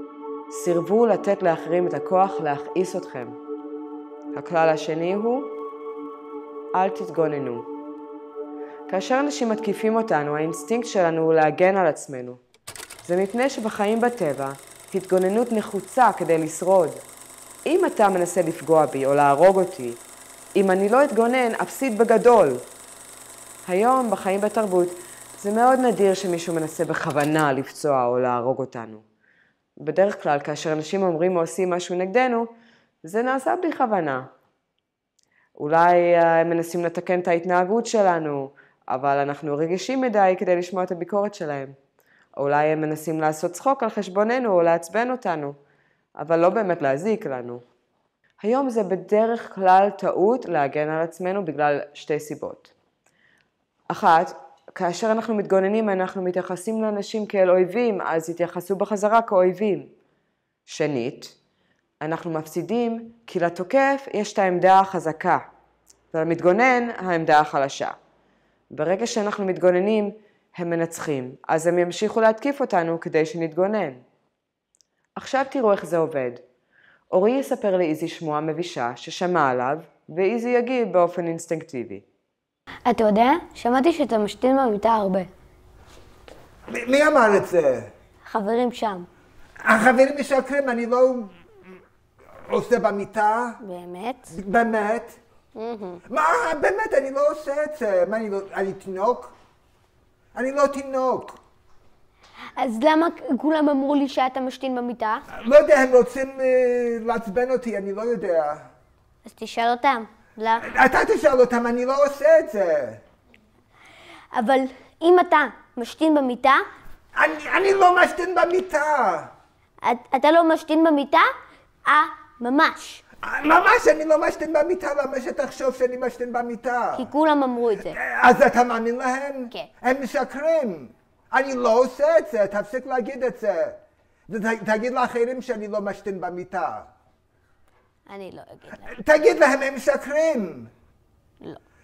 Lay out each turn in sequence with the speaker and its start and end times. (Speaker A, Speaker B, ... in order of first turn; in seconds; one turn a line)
Speaker A: 0.5-3.4
Speaker A: 4.3-5.6
Speaker A: 6.7-7.7
Speaker A: 8.9-12.4
Speaker A: 13.0-17.0
Speaker A: 17.6-20.0
Speaker A: 20.6-22.6
Speaker A: 23.7-29.0
Speaker A: 29.8-32.5
Speaker A: 33.0-34.3
Speaker A: 35.6-41.8
Speaker A: 42.4-45.6
Speaker A: 46.2-47.6
Speaker A: 48.4-52.7
Speaker A: 53.9-59.9
Speaker A: 60.7-61.4
Speaker A: 62.0-65.4
Speaker A: 66.1-68.0
Speaker A: 68.7-74.0
Speaker A: 75.2-76.4
Speaker A: 77.1-82.0
Speaker B: 82.8-85.3
Speaker C: 86.7-87.9
Speaker B: 88.2-89.1
Speaker C: 89.6-91.3
Speaker C: 92.5-93.6
Speaker B: 93.6-94.3
Speaker C: 94.3-95.2
Speaker B: 95.5-96.0
Speaker C: 96.1-99.3
Speaker C: 100.3-101.4
Speaker B: 102.6-105.2
Speaker C: 105.3-108.7
Speaker B: 109.2-110.7
Speaker C: 110.6-113.0
Speaker B: 114.3-116.6
Speaker C: 117.2-119.3
Speaker B: 119.8-121.3
Speaker B: 121.8-123.0
Speaker C: 123.2-127.1
Speaker B: 127.0-128.0
Speaker C: 127.9-136.9
Speaker B: 138.1-138.9
Speaker C: 138.8-140.7